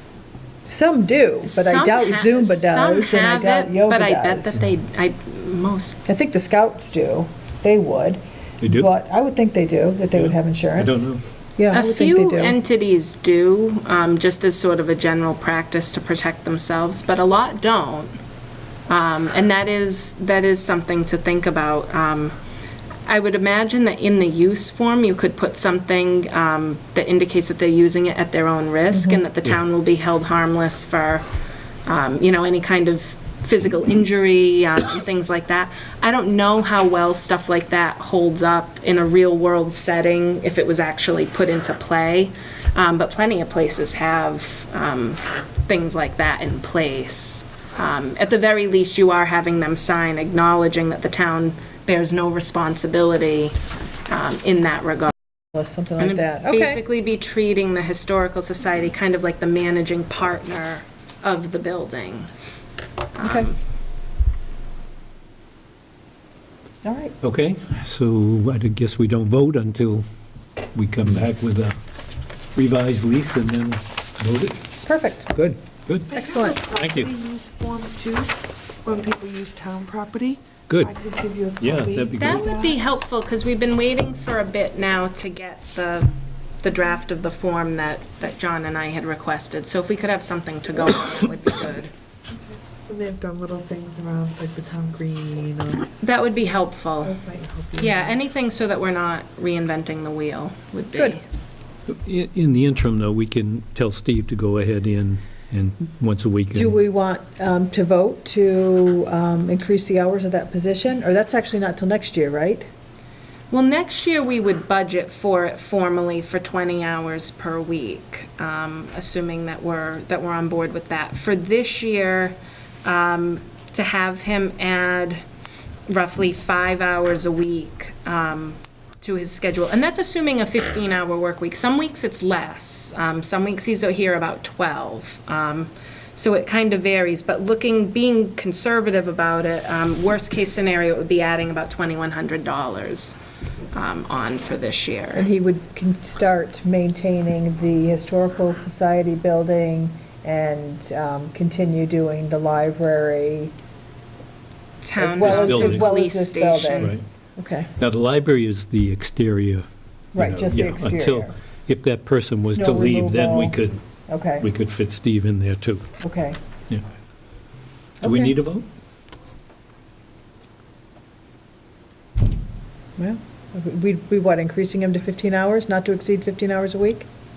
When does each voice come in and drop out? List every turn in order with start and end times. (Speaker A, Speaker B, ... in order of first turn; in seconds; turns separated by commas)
Speaker A: 0.7-4.6, Speaker B: 1.4-6.0, Speaker A: 6.1-12.6, Speaker C: 8.6-8.9, Speaker C: 10.1-11.2, Speaker B: 11.7-18.1, Speaker B: 18.9-22.4, Speaker B: 23.1-31.2, Speaker A: 28.9-29.2, Speaker B: 31.9-53.6, Speaker B: 54.1-55.1, Speaker A: 55.5-56.8, Speaker B: 56.0-62.3, Speaker B: 63.2-63.5, Speaker A: 63.2-63.5, Speaker A: 66.8-67.2, Speaker C: 67.2-70.0, Speaker C: 70.8-71.7, Speaker C: 72.5-74.6, Speaker A: 74.8-75.4, Speaker C: 75.9-76.1, Speaker D: 76.1-78.3, Speaker A: 76.1-76.6, Speaker C: 76.7-77.1, Speaker D: 78.8-83.0, Speaker C: 80.7-80.9, Speaker C: 81.6-82.5, Speaker B: 82.2-91.9, Speaker D: 92.3-95.9, Speaker B: 96.0-97.2, Speaker D: 97.0-98.2, Speaker B: 97.8-101.2, Speaker C: 101.9-106.7, Speaker A: 106.5-112.7, Speaker B: 113.5-125.2, Speaker B: 125.9-143.2, Speaker B: 143.7-145.3, Speaker A: 145.2-153.5, Speaker B: 154.8-157.0, Speaker A: 155.0-157.7, Speaker C: 155.2-155.9, Speaker C: 156.8-157.0, Speaker C: 157.8-163.8, Speaker A: 160.1-161.3, Speaker A: 162.5-163.6, Speaker A: 164.1-164.5, Speaker C: 164.4-165.9, Speaker A: 166.0-166.4, Speaker A: 168.0-168.4, Speaker C: 168.0-168.7, Speaker A: 173.0-177.1